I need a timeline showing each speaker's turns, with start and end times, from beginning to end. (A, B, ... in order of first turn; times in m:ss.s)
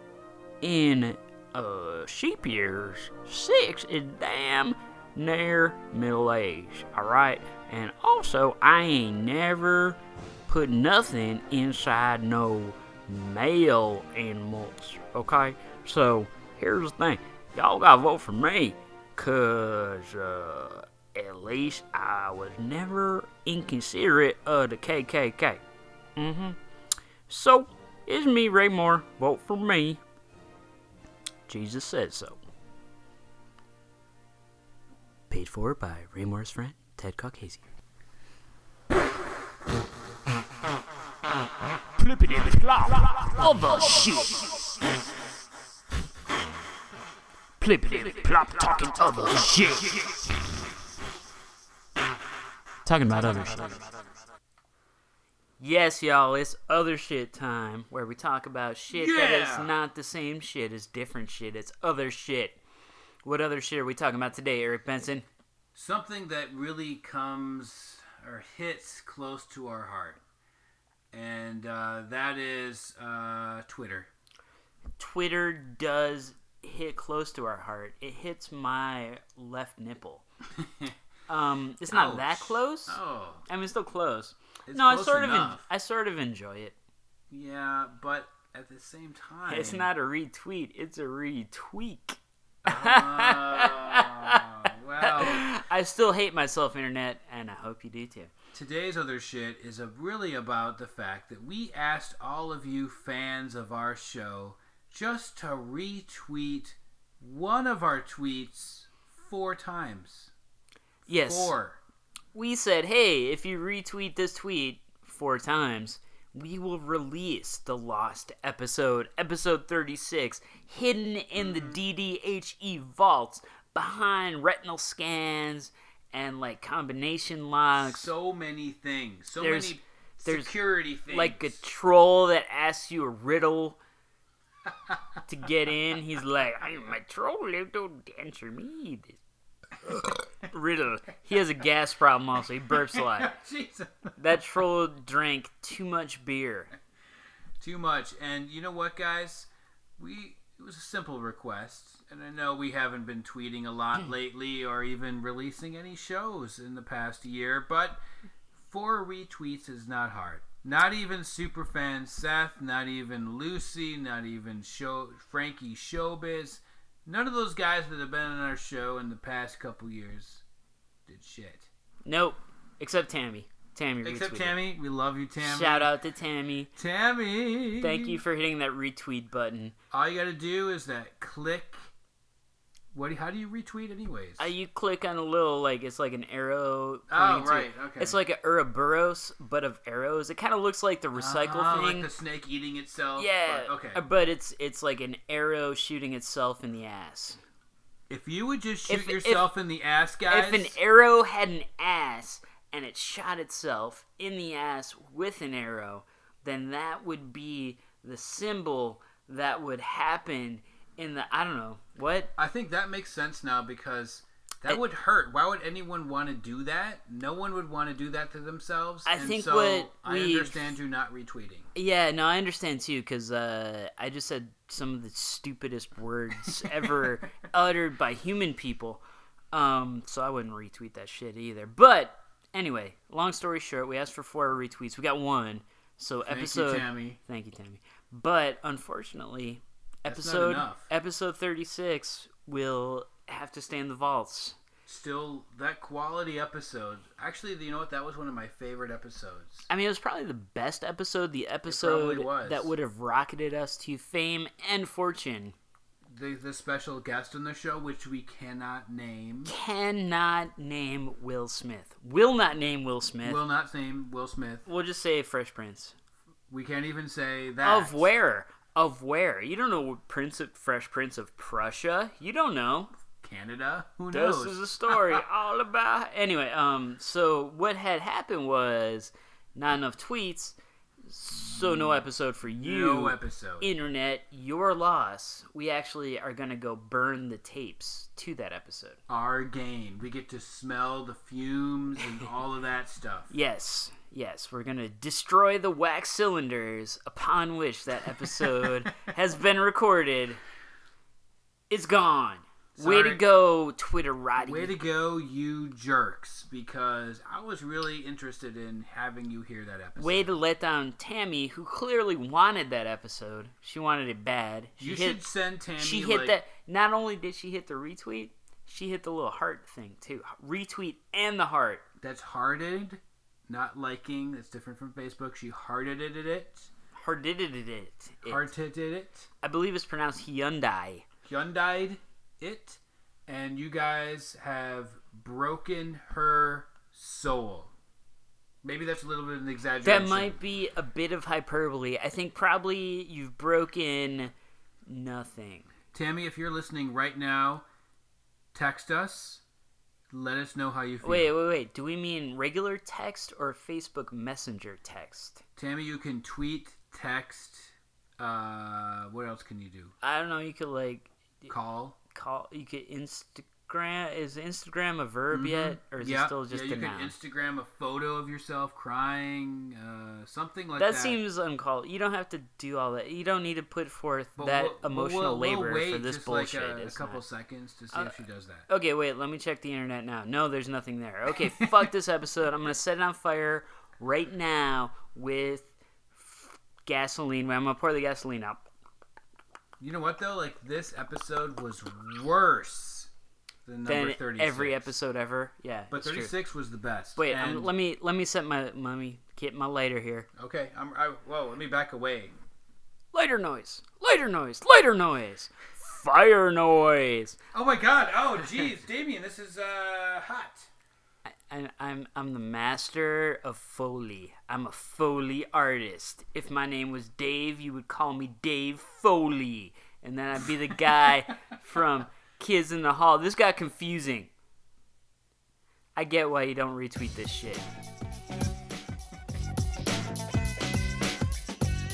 0:00.6-0:25.6 A
0:26.2-0:26.6 A
0:27.3-0:30.0 A
0:31.5-0:32.4 A
0:35.3-0:37.6 A
0:42.0-0:44.6 A
0:47.6-0:50.2 A
0:52.9-0:53.9 A
0:55.6-1:02.6 A
0:58.9-0:59.7 B
1:03.2-1:05.3 A
1:05.7-1:10.2 B
1:11.1-1:14.1 B
1:15.0-1:20.2 A
1:20.6-1:20.9 B
1:21.3-1:26.8 A
1:21.9-1:23.4 B
1:24.7-1:25.6 B
1:27.3-1:29.9 B
1:29.5-1:38.3 A
1:32.6-1:35.5 B
1:38.5-1:50.3 B
1:51.1-1:51.5 A
1:51.1-1:51.8 B
1:52.3-2:08.1 A
2:01.4-2:01.8 B
2:07.7-2:11.6 B
2:09.4-2:10.5 A
2:11.1-2:13.8 A
2:15.3-2:19.2 A
2:19.9-2:23.4 A
2:23.0-2:24.1 B
2:24.2-2:26.7 A
2:27.6-2:38.0 B
2:38.6-2:50.4 B
2:51.1-2:51.7 B
2:52.1-2:54.6 A
2:54.0-2:55.9 B
2:55.4-2:56.7 A
2:56.8-2:58.2 B
2:57.8-2:59.8 A
2:59.9-3:01.9 B
3:02.9-3:04.5 B
3:04.4-3:12.1 A
3:07.1-3:08.2 B
3:11.2-3:14.0 B
3:13.2-3:17.4 A
3:18.1-3:20.8 B
3:18.9-3:19.5 A
3:20.3-3:32.3 A
3:32.4-3:41.7 B
3:39.1-3:40.8 A
3:41.8-4:04.6 A
3:46.5-3:46.9 B
3:56.3-3:57.2 B
4:00.1-4:00.9 B
4:04.9-4:09.7 B
4:09.7-4:15.6 A
4:11.7-4:12.7 B
4:16.1-4:19.5 B
4:19.5-4:23.4 A
4:23.2-4:24.6 B
4:24.7-4:25.9 A
4:26.5-4:28.1 B
4:27.6-4:32.9 A
4:33.2-4:35.2 B
4:34.1-4:49.0 A
4:41.5-4:42.0 B
4:42.6-4:43.7 B
4:49.1-4:53.3 B
4:53.3-5:00.4 A
5:01.7-5:04.8 A
5:02.8-5:03.2 B
5:04.4-5:10.3 B
5:10.0-5:15.2 A
5:14.8-5:16.4 B
5:15.8-5:21.8 A
5:22.0-5:26.7 B
5:27.0-5:28.5 A
5:28.2-5:29.3 B
5:29.4-5:31.0 A
5:31.2-5:37.7 B
5:38.6-5:40.4 B
5:39.8-5:44.3 A
5:44.9-5:45.7 A
5:45.9-5:47.6 B
5:48.5-5:49.4 B
5:50.1-5:51.3 B
5:51.0-5:55.4 A
5:55.6-5:59.9 B
6:00.0-6:01.5 A
6:01.5-6:02.0 B
6:02.1-6:07.1 A
6:05.3-6:11.2 B
6:10.8-6:17.2 A
6:14.4-6:18.7 B
6:18.7-6:28.7 A
6:29.8-6:33.1 B
6:33.7-6:34.9 B
6:33.9-6:36.3 A
6:35.9-6:37.7 B
6:37.2-6:40.3 A
6:40.4-6:42.3 B
6:43.1-6:47.4 A
6:47.5-6:50.7 B
6:51.3-7:04.3 A
7:06.0-7:07.6 A